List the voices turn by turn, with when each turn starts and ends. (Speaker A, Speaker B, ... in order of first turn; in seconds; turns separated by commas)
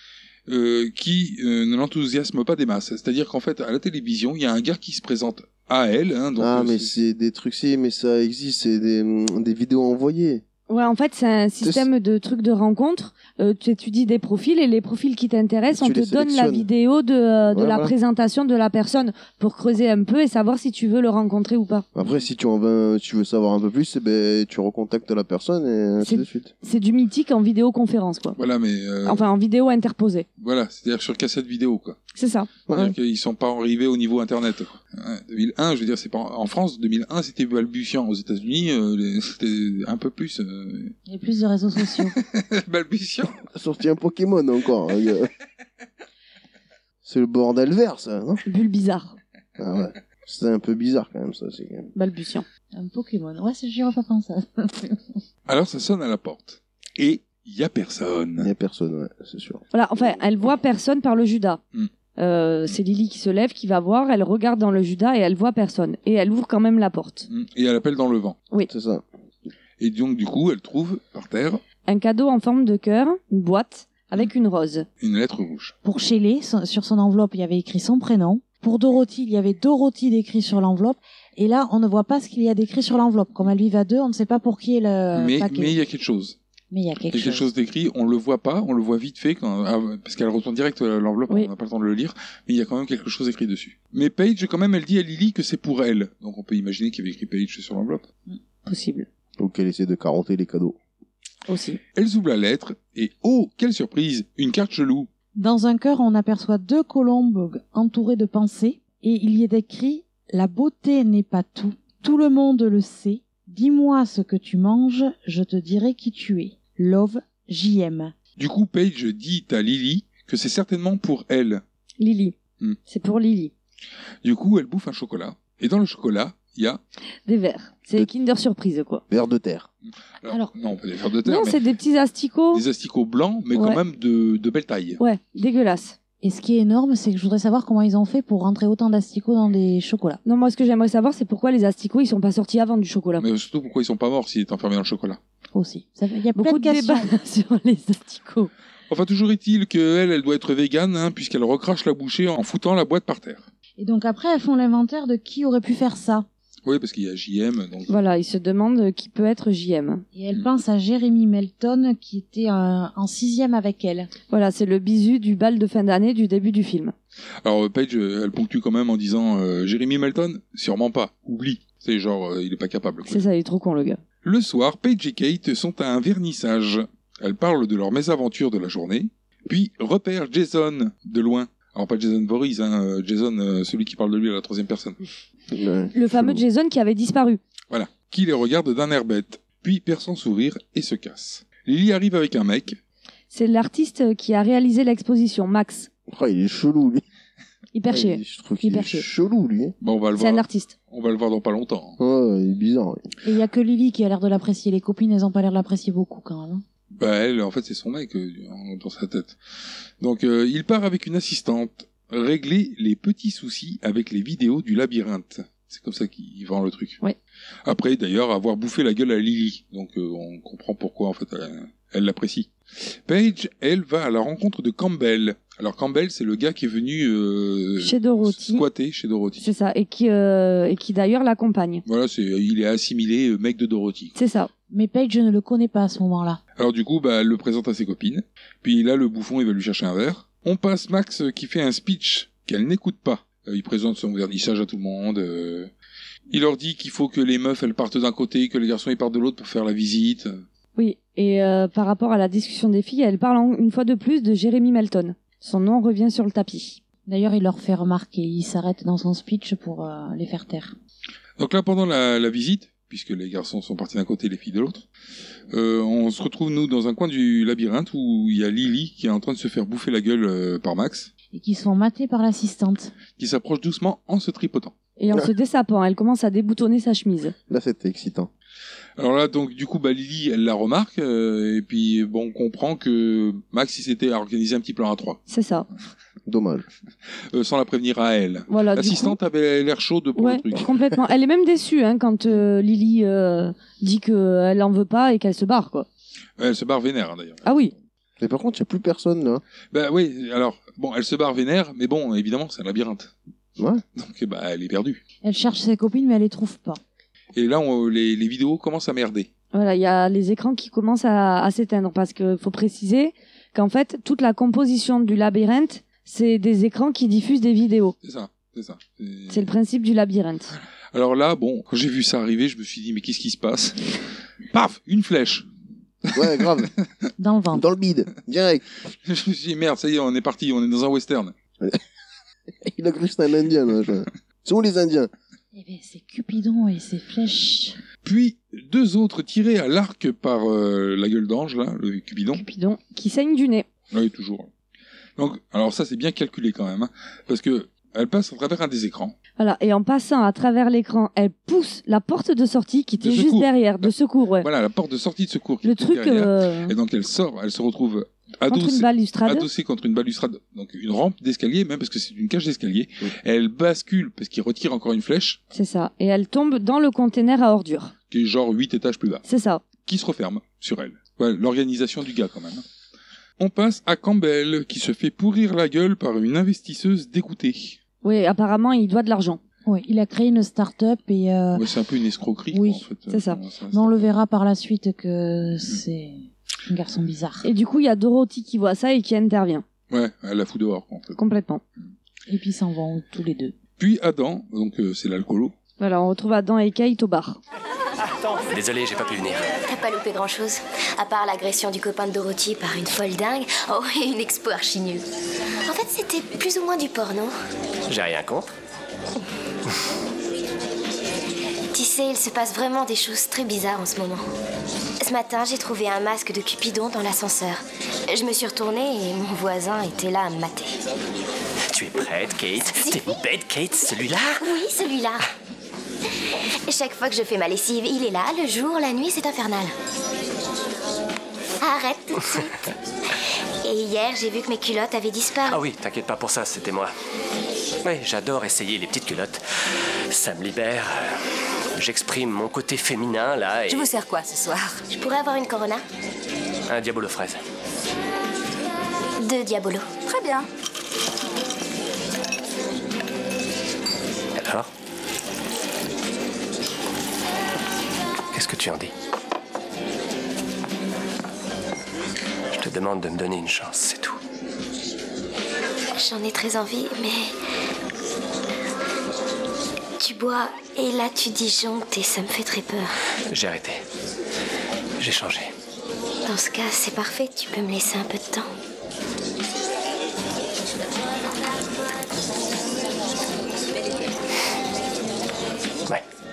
Speaker A: 0.5-6.9, Speaker B: 6.4-10.4, Speaker C: 10.7-21.9, Speaker B: 11.6-11.9, Speaker B: 15.7-16.7, Speaker B: 17.5-17.9, Speaker B: 21.9-26.5, Speaker C: 26.0-28.4, Speaker A: 28.4-29.3, Speaker C: 29.1-30.2, Speaker A: 30.4-32.0, Speaker C: 32.1-32.5, Speaker B: 32.7-33.0, Speaker A: 32.7-41.0, Speaker D: 41.1-42.1, Speaker A: 41.9-43.4, Speaker B: 43.5-45.3, Speaker B: 47.0-48.4, Speaker C: 48.5-49.1, Speaker B: 49.6-51.9, Speaker C: 51.9-52.5, Speaker D: 52.7-55.2, Speaker A: 55.5-58.5, Speaker B: 58.4-59.6, Speaker C: 59.7-61.6, Speaker C: 62.2-67.3, Speaker A: 67.3-68.4, Speaker B: 68.7-69.0, Speaker A: 69.8-71.6, Speaker C: 71.9-74.8, Speaker A: 75.0-75.7, Speaker D: 75.8-85.7, Speaker A: 85.1-86.3, Speaker D: 86.7-87.5, Speaker A: 87.1-98.0, Speaker C: 98.6-99.1, Speaker B: 99.4-100.8, Speaker C: 101.5-101.8, Speaker A: 101.9-105.1, Speaker D: 105.3-118.1, Speaker A: 118.4-121.6, Speaker C: 122.0-122.3, Speaker C: 122.9-123.5, Speaker A: 124.2-126.8, Speaker C: 127.2-129.0, Speaker B: 129.1-129.7, Speaker A: 129.8-131.6, Speaker C: 131.2-132.6, Speaker A: 132.5-135.0, Speaker C: 133.5-133.8, Speaker C: 135.0-135.9, Speaker D: 136.2-140.2, Speaker C: 140.2-143.2, Speaker A: 143.2-145.2, Speaker D: 145.5-147.2, Speaker C: 146.3-148.5, Speaker A: 148.9-153.5, Speaker D: 153.8-156.2, Speaker A: 156.7-157.9, Speaker C: 157.9-160.0, Speaker D: 160.1-164.1, Speaker C: 164.3-166.9, Speaker A: 167.4-173.2, Speaker C: 173.1-174.0, Speaker A: 174.2-185.0, Speaker B: 185.5-186.4, Speaker C: 185.9-187.4, Speaker A: 187.7-192.8, Speaker C: 193.3-195.9, Speaker B: 196.1-197.0, Speaker C: 197.7-199.1, Speaker B: 197.9-199.7, Speaker A: 199.8-202.0, Speaker C: 200.2-200.7, Speaker B: 202.0-203.0, Speaker D: 203.2-206.6, Speaker A: 206.9-209.4, Speaker A: 210.0-217.0, Speaker A: 217.6-229.4, Speaker C: 227.8-228.6, Speaker C: 229.4-231.8, Speaker A: 231.8-234.1, Speaker C: 234.1-234.5, Speaker D: 234.7-236.4, Speaker A: 236.6-245.7, Speaker A: 246.3-250.4, Speaker C: 250.8-256.8, Speaker D: 257.1-260.7, Speaker A: 261.4-264.8, Speaker A: 265.5-271.1, Speaker D: 271.3-272.9, Speaker A: 273.1-274.7, Speaker C: 275.0-277.3, Speaker B: 277.5-278.3, Speaker A: 279.0-285.2, Speaker C: 285.3-285.7, Speaker B: 286.3-286.6, Speaker A: 287.3-290.7, Speaker C: 288.5-289.2, Speaker C: 290.2-295.9, Speaker A: 296.4-297.4, Speaker C: 297.4-297.7, Speaker B: 298.2-299.4, Speaker A: 299.7-303.1, Speaker A: 303.9-305.0, Speaker D: 305.2-306.8, Speaker A: 307.3-309.3, Speaker C: 309.5-317.9, Speaker A: 318.0-319.5, Speaker C: 319.3-320.5, Speaker A: 320.9-323.9, Speaker A: 324.5-325.5, Speaker A: 326.1-326.5, Speaker B: 326.1-326.7, Speaker D: 327.2-327.6, Speaker B: 327.5-328.6, Speaker A: 329.0-331.3, Speaker B: 332.6-335.1, Speaker D: 335.5-337.8, Speaker A: 338.0-342.4, Speaker C: 342.3-343.6, Speaker A: 343.9-344.5, Speaker A: 345.2-349.1, Speaker C: 349.4-354.5, Speaker A: 353.0-365.4, Speaker C: 355.6-356.7, Speaker C: 358.5-359.5, Speaker C: 365.5-367.9, Speaker A: 368.1-369.2, Speaker C: 369.2-369.6, Speaker A: 369.8-372.6, Speaker A: 373.4-377.8, Speaker C: 378.0-379.4, Speaker D: 379.6-381.6, Speaker A: 381.5-384.0, Speaker D: 382.5-382.8, Speaker C: 383.1-383.4, Speaker D: 383.7-387.4, Speaker C: 387.4-389.6, Speaker A: 389.9-391.1, Speaker C: 391.1-391.6, Speaker D: 392.3-393.5, Speaker A: 393.8-395.5, Speaker C: 395.8-397.4, Speaker E: 398.5-399.5, Speaker F: 399.7-405.0, Speaker F: 405.7-407.3, Speaker E: 407.9-408.5, Speaker F: 411.7-414.2, Speaker F: 415.0-420.7, Speaker E: 421.7-424.4, Speaker F: 424.4-425.2, Speaker F: 426.7-429.7, Speaker F: 431.6-432.5, Speaker F: 433.6-435.6, Speaker E: 435.5-436.9, Speaker E: 437.8-439.4, Speaker E: 440.1-441.1, Speaker E: 441.8-443.9, Speaker F: 444.9-445.8, Speaker E: 446.7-447.4, Speaker F: 449.2-449.9, Speaker E: 454.4-454.7, Speaker E: 458.3-458.9, Speaker E: 462.5-464.2, Speaker F: 465.9-467.2, Speaker F: 470.0-472.9, Speaker E: 473.3-473.8, Speaker E: 475.0-475.5, Speaker F: 476.2-478.5